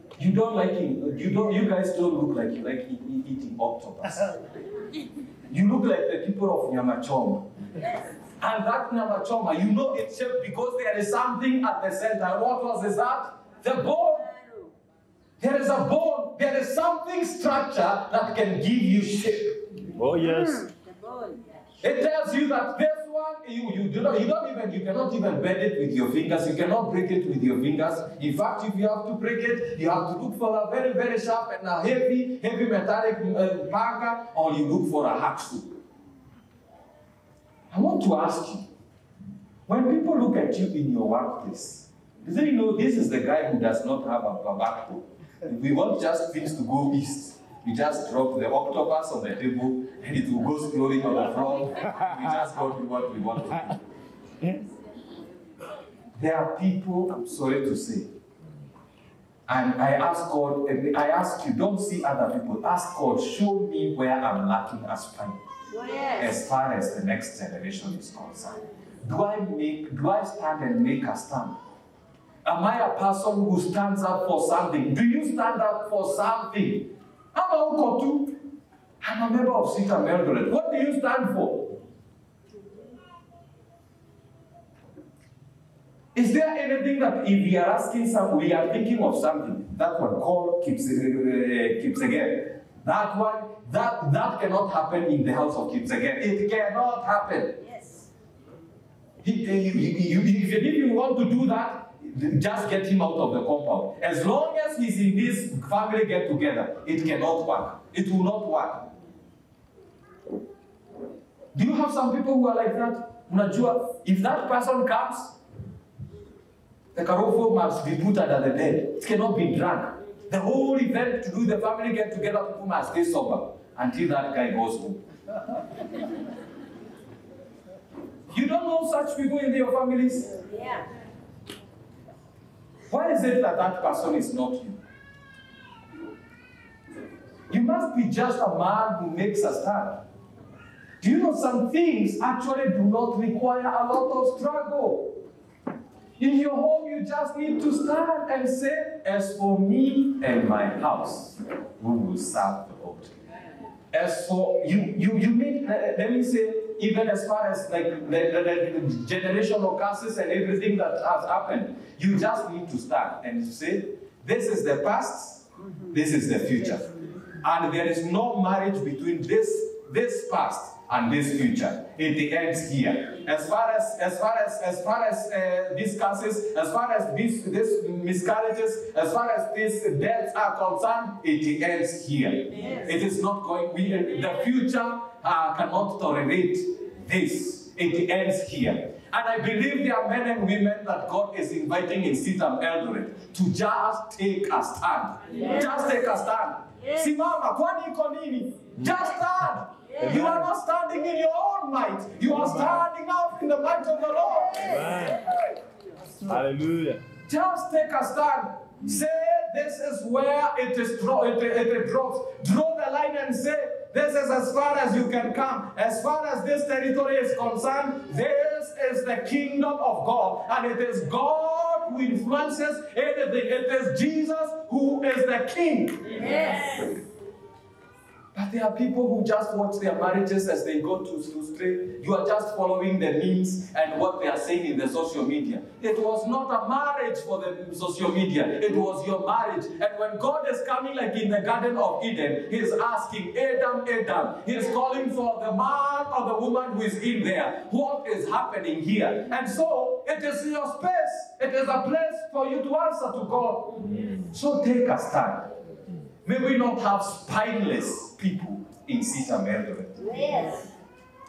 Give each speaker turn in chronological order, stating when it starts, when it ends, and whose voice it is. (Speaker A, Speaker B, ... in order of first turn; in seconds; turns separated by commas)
Speaker A: 0.2-4.3, Speaker A: 5.5-7.4, Speaker A: 8.4-14.3, Speaker B: 14.3-14.6, Speaker A: 15.4-19.6, Speaker C: 19.9-20.7, Speaker B: 20.6-21.4, Speaker A: 21.8-35.8, Speaker A: 37.7-38.7, Speaker A: 39.7-53.8, Speaker A: 56.2-58.1, Speaker A: 59.5-65.4, Speaker B: 65.7-66.3, Speaker A: 66.2-71.5, Speaker A: 72.4-78.4, Speaker A: 79.0-81.7, Speaker A: 86.1-97.6, Speaker B: 97.6-98.1, Speaker A: 99.2-108.9, Speaker A: 111.5-115.4, Speaker A: 116.9-125.0, Speaker A: 128.3-130.4, Speaker B: 130.5-130.8, Speaker A: 132.9-134.8, Speaker A: 137.5-140.0, Speaker A: 141.0-145.1, Speaker A: 146.2-153.1, Speaker A: 153.9-166.9, Speaker A: 167.4-204.8, Speaker B: 182.6-182.8, Speaker C: 200.0-200.5, Speaker C: 202.3-202.8, Speaker C: 204.5-205.3, Speaker C: 206.2-207.0, Speaker A: 207.3-226.4, Speaker B: 226.2-227.0, Speaker A: 228.3-255.5, Speaker C: 253.9-254.2, Speaker A: 256.2-260.3, Speaker B: 260.1-260.7